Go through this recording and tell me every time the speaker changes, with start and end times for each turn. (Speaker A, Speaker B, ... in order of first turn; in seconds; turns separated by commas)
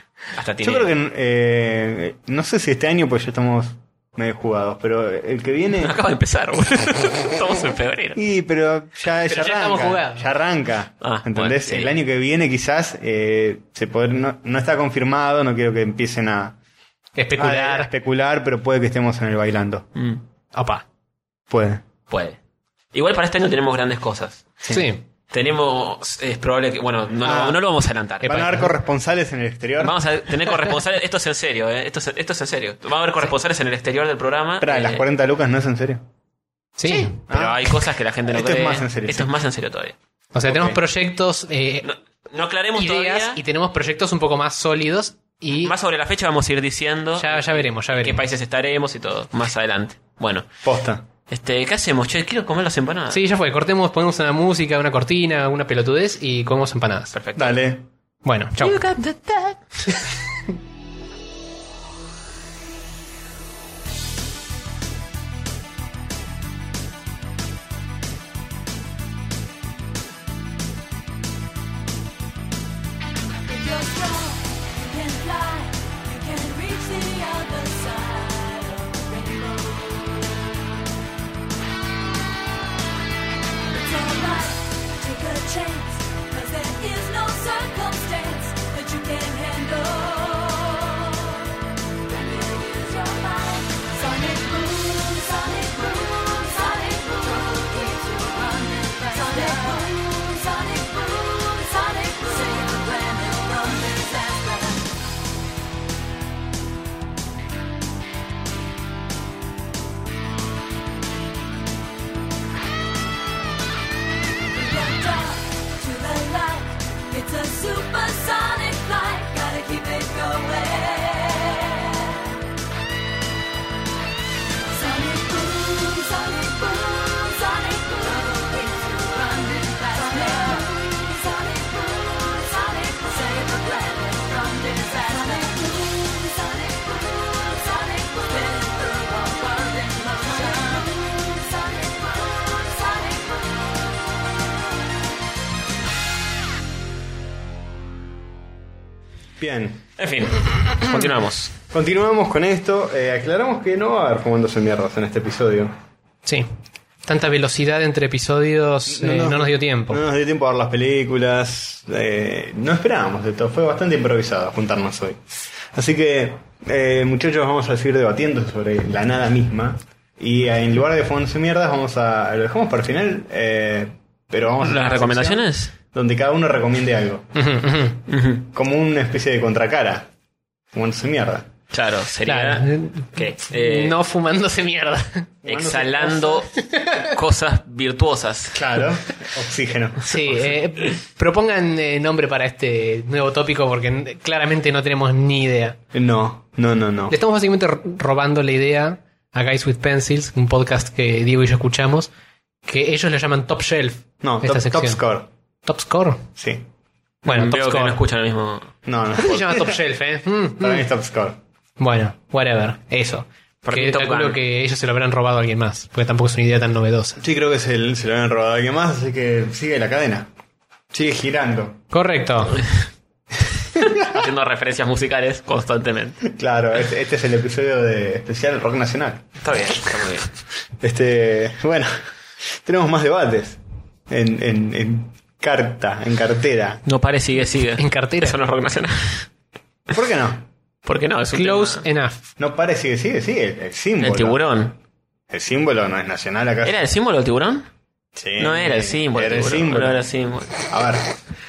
Speaker A: 0.3-0.9, Speaker B: 0.6-6.0, Speaker A: 5.8-8.2, Speaker B: 8.2-16.6, Speaker C: 9.3-10.3, Speaker A: 11.0-11.9, Speaker C: 17.2-17.9, Speaker B: 17.4-19.9, Speaker A: 19.9-20.2, Speaker C: 20.5-20.8, Speaker B: 21.5-21.8, Speaker A: 22.1-22.4, Speaker A: 22.9-24.5, Speaker C: 24.7-25.0, Speaker A: 25.3-28.4, Speaker B: 27.2-27.6, Speaker C: 28.2-28.7, Speaker B: 28.2-30.0, Speaker A: 29.8-35.0, Speaker B: 34.6-36.0, Speaker C: 36.8-37.2, Speaker A: 36.9-40.0, Speaker B: 37.3-39.3, Speaker C: 40.3-41.9, Speaker B: 40.4-40.8, Speaker A: 41.8-43.4, Speaker C: 42.8-45.7, Speaker A: 45.6-50.5, Speaker C: 47.2-48.2, Speaker B: 50.6-51.1, Speaker A: 51.3-53.2, Speaker C: 53.1-57.1, Speaker A: 57.1-57.6, Speaker B: 57.4-57.9, Speaker C: 58.2-58.9, Speaker A: 58.6-59.6, Speaker D: 73.5-80.6, Speaker D: 83.7-91.5, Speaker D: 92.0-104.9, Speaker D: 114.5-122.4, Speaker D: 124.7-144.1, Speaker B: 149.4-149.9, Speaker A: 150.0-151.5, Speaker B: 151.7-155.8, Speaker C: 157.1-160.0, Speaker B: 158.9-177.4, Speaker A: 174.6-175.7, Speaker C: 177.4-178.0, Speaker A: 178.1-178.5, Speaker B: 178.5-180.1, Speaker B: 180.7-181.5, Speaker A: 181.7-183.9, Speaker C: 182.3-185.3, Speaker B: 185.4-186.4, Speaker A: 185.5-188.6, Speaker C: 186.5-187.1, Speaker B: 188.5-190.1, Speaker C: 190.1-195.8, Speaker B: 195.9-197.2, Speaker C: 197.1-202.1, Speaker C: 202.7-205.0, Speaker B: 204.2-205.3, Speaker C: 205.7-206.3, Speaker B: 206.4-206.7, Speaker C: 207.3-208.0, Speaker A: 207.3-208.7, Speaker B: 208.8-209.8, Speaker C: 209.2-210.9, Speaker B: 210.6-211.4, Speaker C: 211.8-217.2, Speaker A: 213.6-214.4, Speaker B: 217.2-220.3, Speaker B: 220.9-221.8, Speaker C: 221.9-222.6, Speaker B: 223.8-224.1, Speaker A: 223.9-226.2, Speaker B: 226.2-229.3, Speaker A: 229.4-230.3, Speaker B: 230.8-236.8, Speaker A: 236.8-239.3, Speaker C: 237.8-238.4, Speaker B: 239.9-240.5, Speaker A: 240.8-241.8, Speaker C: 241.3-242.2, Speaker B: 242.4-244.4, Speaker A: 244.0-244.8, Speaker B: 245.3-246.8, Speaker A: 246.6-247.7, Speaker B: 248.2-251.1, Speaker A: 248.4-250.6